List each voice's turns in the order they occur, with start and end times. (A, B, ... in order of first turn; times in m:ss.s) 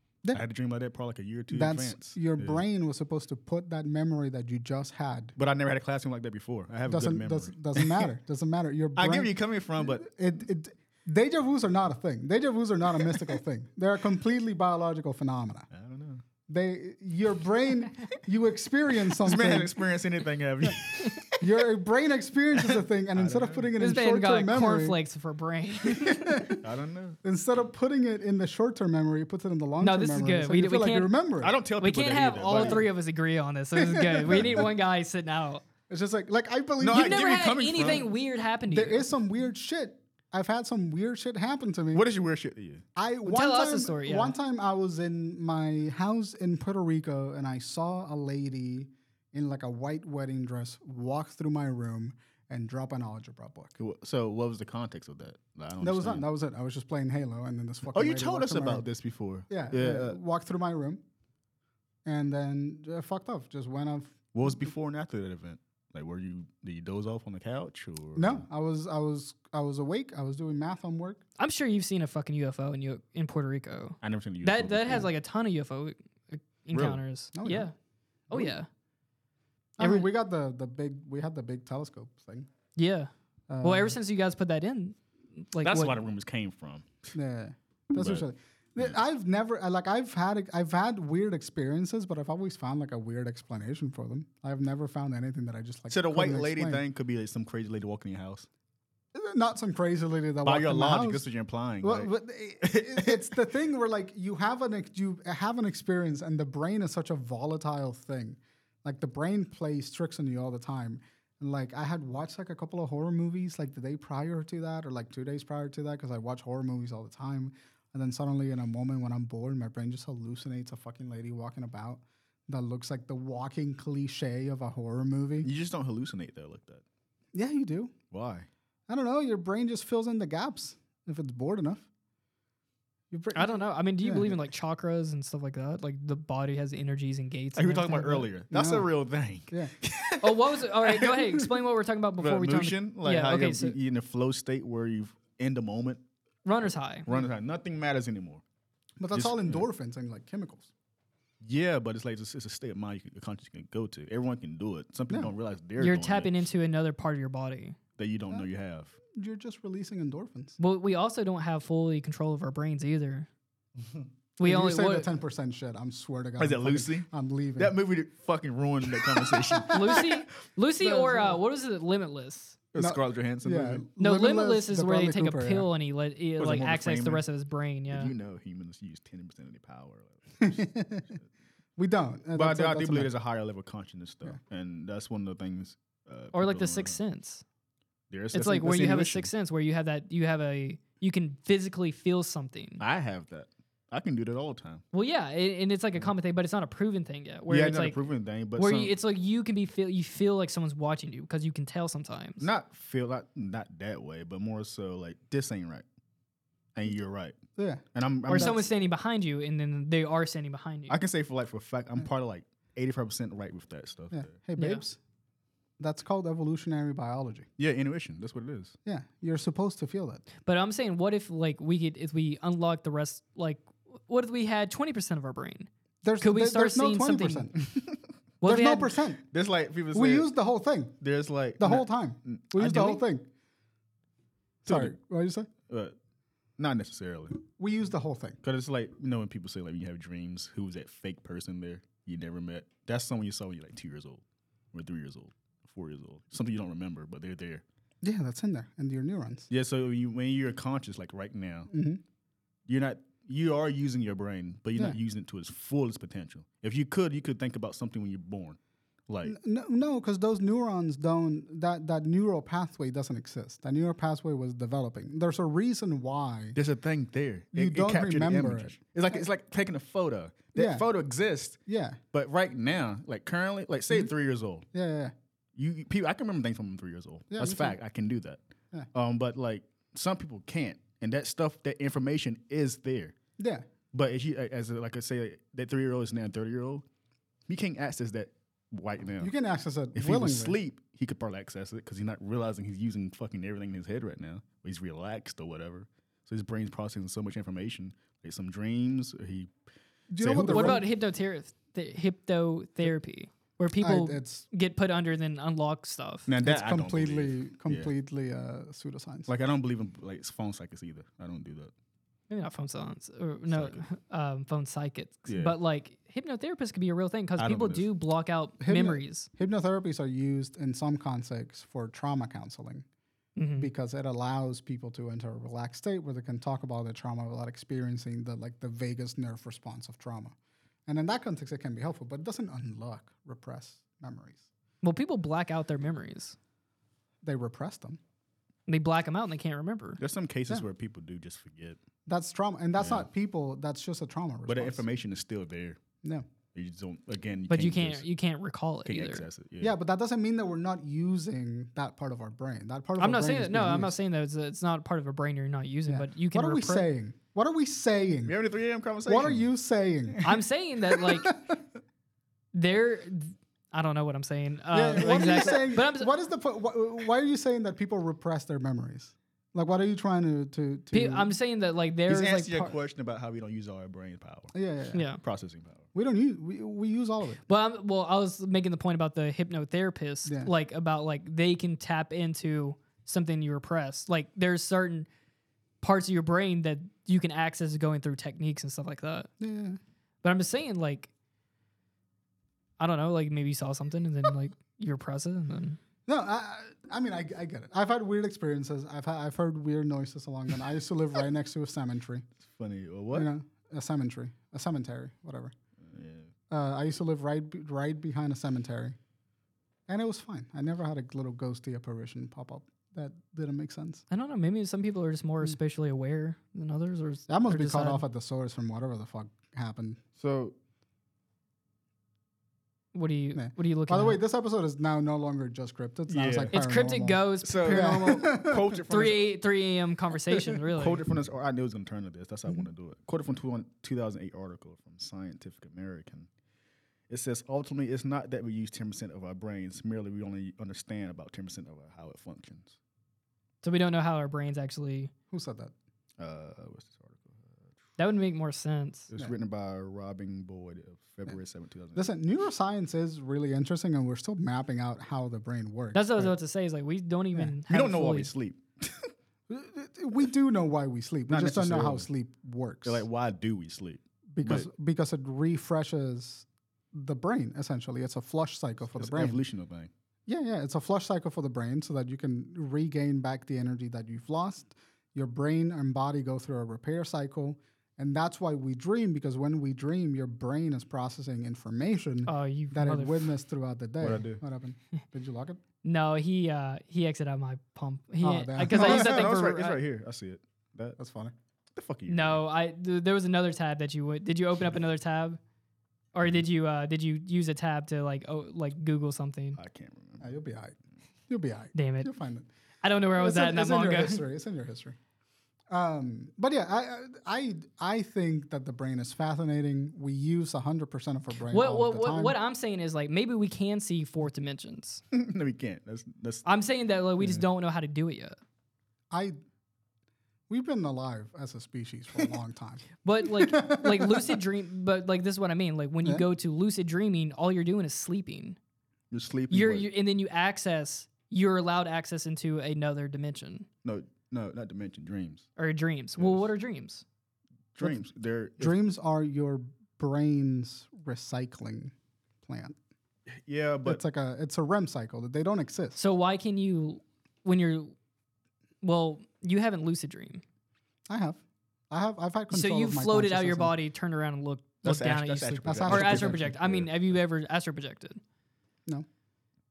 0:00.3-0:02.6 A
0:01.5-0:05.3 B
0:05.4-0:08.1 A
0:06.9-0:15.7 B
0:09.0-0:10.1 A
0:15.7-0:16.2 A
0:16.5-0:19.8 B
0:19.1-0:21.6 A
0:21.4-0:25.0 B
0:22.6-0:23.7 A
0:23.8-0:26.5 C
0:25.8-0:26.7 B
0:26.6-0:27.2 A
0:27.2-0:31.5 B
0:29.8-0:31.1 C
0:31.4-0:32.9 A
0:31.8-0:35.6 C
0:32.6-0:32.8 B
0:33.7-0:34.7 B
0:34.3-0:34.7 A
0:35.9-0:37.2 B
0:36.8-0:38.1 A
0:36.9-0:39.1 C
0:38.7-0:42.1 B
0:41.9-0:42.8 A
0:43.0-0:53.7 B
0:43.2-0:44.3 C
0:53.8-0:56.3 A
0:55.8-0:58.8 B
0:57.9-1:00.2 A
0:59.5-1:01.0 B
1:02.0-1:04.7 B
1:04.3-1:08.4 A
1:08.2-1:11.2 B
1:11.4-1:17.7 C
1:14.0-1:15.1 A
1:16.7-1:17.0 A
1:17.3-1:17.7 B
1:18.3-1:18.6 B
1:18.3-1:18.7 C
1:19.8-1:22.5 B
1:19.8-1:20.1 C
1:22.8-1:23.1 C
1:23.5-1:24.0 B
1:23.6-1:26.0 C
1:25.6-1:27.1 A
1:27.1-1:36.8 B
1:28.0-1:28.2 A
1:35.9-1:38.5 A
1:39.1-1:41.3 B
1:40.4-1:42.1 A
1:41.8-2:05.5 B
1:42.6-1:43.4 A
2:05.4-2:06.8 A
2:07.3-2:07.9 B
2:08.1-2:08.5 A
2:08.9-2:11.9 B
2:13.1-2:14.4 B
2:13.3-2:18.3 C
2:17.6-2:21.5 A
2:18.5-2:18.9 B
2:20.2-2:23.8 C
2:22.2-2:26.0 A
2:26.4-2:27.1 C
2:27.1-2:28.4 A
2:29.0-2:30.7 B
2:29.1-2:29.6 A
2:31.4-2:36.4 A
2:35.8-2:37.8 C
2:38.0-2:39.0 A
2:39.1-2:40.6 B
2:40.6-2:43.3 C
2:44.4-2:45.1 C
2:44.4-2:47.8 B
2:46.4-2:50.1 A
2:48.9-2:50.1 B
2:49.7-2:52.6 C
2:50.8-2:51.4 B
2:52.7-2:53.8 A
2:52.8-2:55.7 B
2:54.0-2:58.1 C
2:56.4-2:57.2 A
2:57.9-3:00.5 A
3:00.4-3:01.2 B
3:01.8-3:03.1 B
3:02.4-3:07.0 A
3:06.3-3:07.4 C
3:08.1-3:09.3 A
3:08.3-3:12.8 C
3:12.8-3:14.8 A
3:14.9-3:18.0 C
3:17.5-3:19.0 A
3:18.6-3:22.5 C
3:22.4-3:25.8 A
3:26.8-3:27.4 A
3:27.6-3:28.6 B
3:27.9-3:28.6 A
3:28.3-3:31.0 C
3:30.9-3:34.3 A
3:34.1-3:35.0 B
3:34.6-3:34.8 C
3:35.8-3:37.5 B
3:37.6-3:38.8 A
3:38.8-3:40.2 B
3:40.4-3:45.7 C
3:46.0-3:47.7 B
3:46.2-3:47.5 C
3:48.4-3:49.0 C
3:48.4-3:49.2 B
3:49.3-3:50.3 A
3:49.9-3:51.0 B
3:51.0-3:53.0 A
3:51.6-3:53.3 B
3:54.6-3:55.0 A
3:54.7-3:55.5 B
3:55.7-3:55.9 A
3:56.6-3:57.4 A
3:57.6-3:58.4 B
3:58.4-4:04.2 A
4:04.7-4:07.6 A
4:08.0-4:09.5 B
4:09.5-4:11.7 A
4:11.7-4:12.0 B
4:12.7-4:18.6 A
4:19.1-4:19.4 A
4:19.2-4:26.6 B
4:26.6-4:31.6 A
4:27.5-4:29.2 B
4:30.6-4:30.8 B
4:31.7-4:32.0 B
4:32.1-4:34.7 A
4:34.7-4:35.1 B
4:35.6-4:38.4 A
4:37.3-4:37.8 B
4:38.9-4:43.2 A
4:43.4-4:43.7 B
4:43.9-4:46.8 A
4:47.5-4:49.3 A
4:49.2-4:50.6 B
4:50.0-4:59.5 A
5:00.1-5:00.8 B
5:00.2-5:00.8 A
5:00.4-5:06.3 C
5:03.8-5:04.5 B
5:06.3-5:07.9 A
5:06.4-5:09.3 B
5:09.3-5:11.7 A
5:12.3-5:19.3 C
5:13.5-5:13.8 A
5:15.3-5:15.6 A
5:17.4-5:17.9 A
5:18.6-5:22.8 B
5:23.4-5:23.7 C
5:23.6-5:30.4 B
5:30.9-5:34.4 B
5:34.8-5:36.4 C
5:37.2-5:38.0 B
5:38.7-5:40.0 C
5:40.0-5:41.8 A
5:42.1-5:44.8 B
5:42.8-5:43.1 A
5:44.5-5:45.8 A
5:46.5-5:48.0 A
5:47.5-5:49.2 C
5:48.9-5:49.8 A
5:49.6-5:53.9 B
5:53.0-5:56.9 C
5:55.9-5:58.4 B
5:58.2-5:59.4 A
5:59.1-6:00.3 B
6:00.2-6:01.3 C
6:00.9-6:01.6 B
6:02.5-6:06.1 C
6:04.7-6:11.3 B
6:05.2-6:05.5 A
6:10.9-6:12.8 C
6:12.1-6:14.5 A
6:14.5-6:15.0 B
6:14.9-6:15.2 C
6:15.2-6:15.9 A
6:16.0-6:17.4 B
6:17.5-6:25.1 C
6:20.3-6:20.5 B
6:25.8-6:29.3 C
6:29.4-6:29.8 B
6:30.2-6:31.1 C
6:32.8-6:35.8 C
6:36.1-6:42.2 B
6:42.5-6:43.3 A
6:43.1-6:45.5 B
6:45.8-6:46.3 A
6:46.5-6:49.0 B
6:49.9-6:54.0 B
6:54.1-6:58.0 C
6:57.3-7:00.0 B
7:00.2-7:00.6 A
7:02.9-7:04.2 C
7:03.4-7:08.8 B
7:06.1-7:06.6 A
7:06.5-7:11.0 C
7:07.4-7:09.3 A
7:10.7-7:16.3 A
7:17.1-7:22.8 A
7:23.6-7:25.1 C
7:25.3-7:25.7 B
7:26.2-7:27.6 A
7:28.0-7:29.1 C
7:29.1-7:32.1 A
7:32.0-7:36.3 B
7:35.9-7:38.3 C
7:37.7-7:39.1 A
7:39.5-7:43.0 B
7:41.3-7:42.1 A
7:42.8-7:44.7 A
7:44.3-7:49.4 B
7:49.0-7:49.9 A
7:50.3-8:05.6 B
8:02.3-8:03.3 C
8:04.0-8:04.4 A
8:05.8-8:09.8 C
8:08.2-8:09.3 B
8:08.7-8:11.0 A
8:11.0-8:11.3 B
8:11.7-8:12.4 A
8:12.1-8:15.4 C
8:16.1-8:19.6 C
8:19.6-8:20.3 A
8:20.2-8:20.8 B
8:21.3-8:22.5 B
8:21.7-8:22.1 C
8:22.8-8:24.2 C
8:23.2-8:25.0 B
8:25.7-8:32.4 B
8:31.5-8:35.0 C
8:35.1-8:36.5 A
8:36.4-8:38.4 C
8:39.1-8:39.4 B
8:40.5-8:44.4 B
8:43.0-8:48.6 C
8:49.1-8:49.9 A
8:49.5-8:53.7 C
8:53.8-8:55.5 A
8:55.6-8:57.0 C
8:56.2-8:56.5 A
8:57.8-8:58.8 A
8:58.6-9:02.8 B
9:03.4-9:04.0 A
9:03.8-9:06.0 B
9:06.0-9:08.0 C
9:08.8-9:10.4 C
9:11.1-9:13.8 B
9:12.5-9:18.2 C
9:14.8-9:16.9 A
9:15.6-9:16.4 B